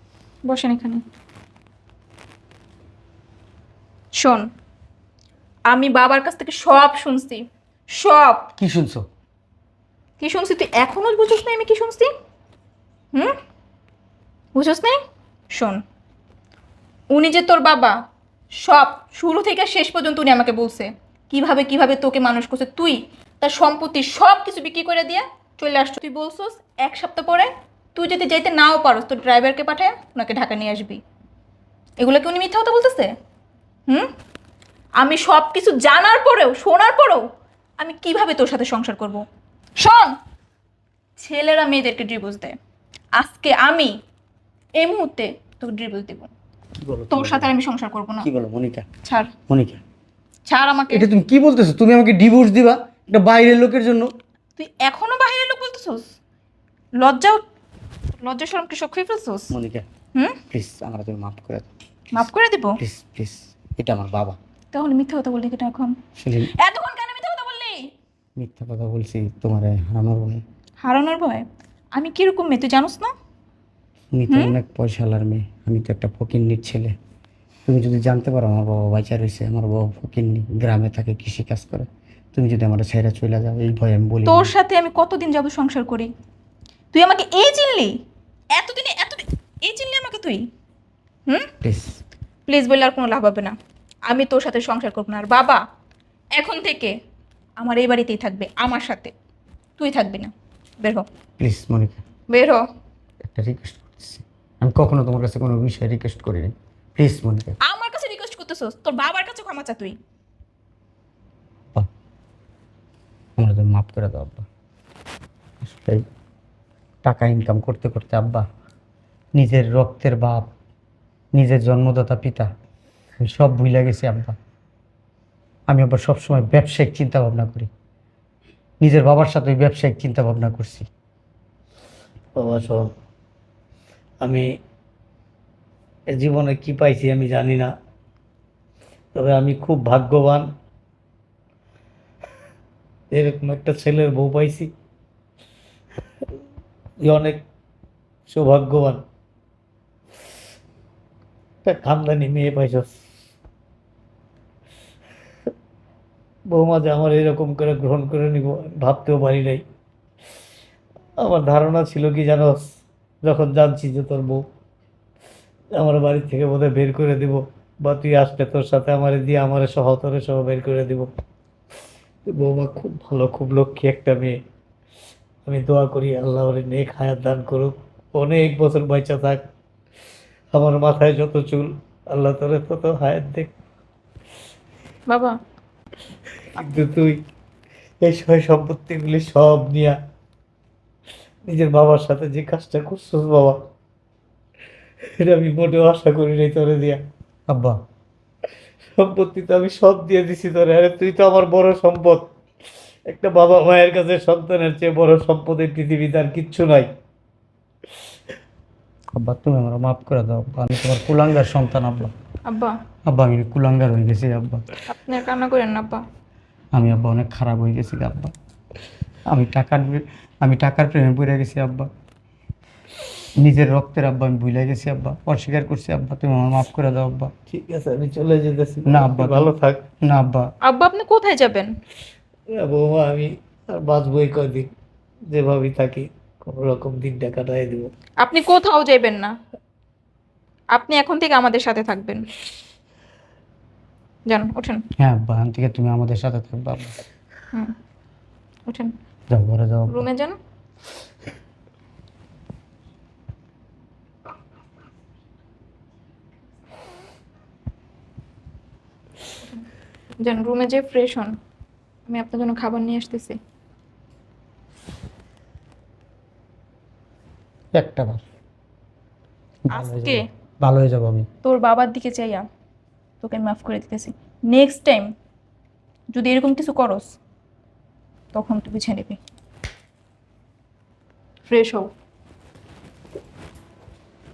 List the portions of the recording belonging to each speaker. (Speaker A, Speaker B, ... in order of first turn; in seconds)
Speaker A: 0.5-1.0, 4.2-4.5, 5.7-8.5, 10.2-12.1, 14.5-15.0, 15.5-15.8, 17.1-18.0, 18.6-31.0, 32.0-33.1, 35.0-37.2, 37.8-39.2, 39.8-40.1, 41.2-42.5, 43.2-43.9, 44.8-46.3, 47.1-48.3, 49.0-49.3, 50.5-51.1, 54.6-56.1, 57.0-57.4, 58.2-59.5, 60.1-60.4, 62.1-62.8, 64.7-66.0, 66.6-67.9, 70.8-73.1, 74.3-74.6, 84.2-86.1, 86.9-88.0, 88.5-90.5, 92.5-93.6, 94.1-95.6, 96.4-96.9, 97.6-99.1, 99.8-101.1, 102.3-102.6, 107.6-110.0, 185.1-185.4, 212.5-212.8, 214.9-216.0, 230.7-231.7, 238.2-239.3, 240.7-242.3, 244.3-244.8, 248.7-248.9, 249.9-250.4, 260.2-261.4, 262.1-263.4, 269.7-270.2, 271.4-272.4, 273.2-275.1, 276.1-277.1, 278.3-279.2, 281.5-281.9
Speaker B: 8.6-9.1, 46.9-47.5, 48.2-48.9, 49.5-49.8, 50.9-54.1, 59.5-59.9, 60.5-61.7, 62.8-64.4, 66.2-66.5, 68.4-70.4, 74.1-77.0, 77.7-84.5, 91.6-91.9, 101.4-102.0, 103.2-107.6, 113.4-114.5, 115.6-116.0, 117.0-118.5, 119.4-120.5, 121.3-122.5, 123.2-124.4, 125.7-127.7, 128.8-130.9, 197.5-197.8, 209.1-212.1, 213.1-214.6, 216.7-218.3, 219.3-221.9, 223.4-227.3, 228.9-229.5, 230.0-230.5, 245.0-247.0, 249.3-250.1, 267.8-268.2, 269.7-271.3
Speaker C: 132.4-132.9, 136.1-137.7, 139.1-140.5, 143.1-144.7, 147.0-147.4, 148.3-149.0, 151.7-153.0, 156.5-159.6, 161.2-164.4, 165.8-171.1, 172.3-174.4, 175.4-179.4, 180.5-183.5, 186.5-187.2, 188.0-190.0, 191.5-193.6, 195.2-197.0, 199.0-202.2, 203.1-206.9, 227.5-229.8, 232.5-234.7, 235.3-237.9